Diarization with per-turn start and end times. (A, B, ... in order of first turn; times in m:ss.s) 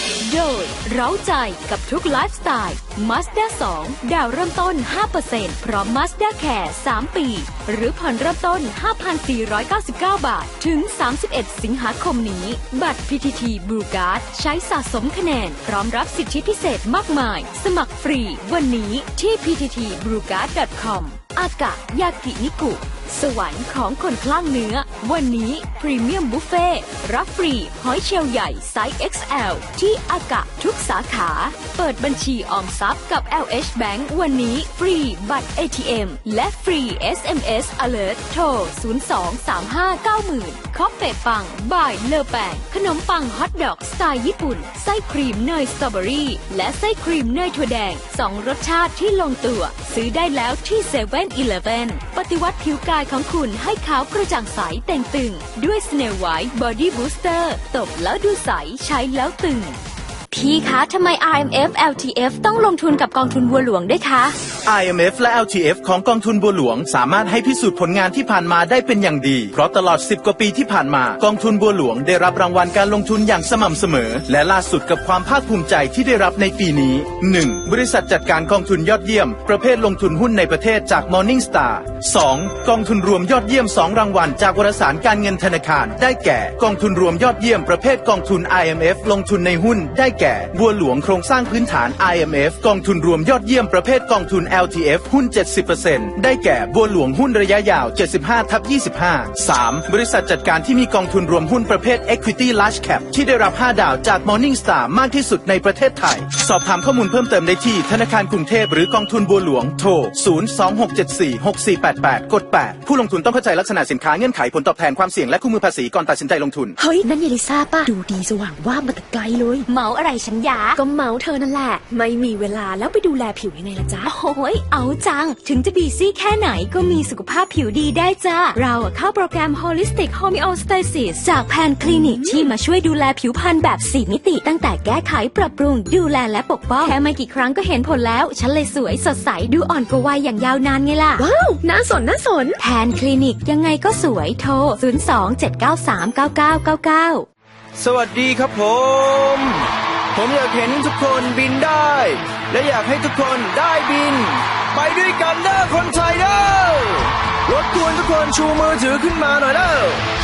0:00.2-0:59.8 A
1:00.3-1:04.3 A
1:04.6-1:56.8 B
1:56.8-1:59.7 C
1:59.7-2:00.8 A
2:00.8-2:04.1 C
2:04.1-2:21.3 A
2:12.1-2:12.4 C
2:21.2-2:22.6 C
2:22.6-2:27.2 A
2:27.8-2:40.0 D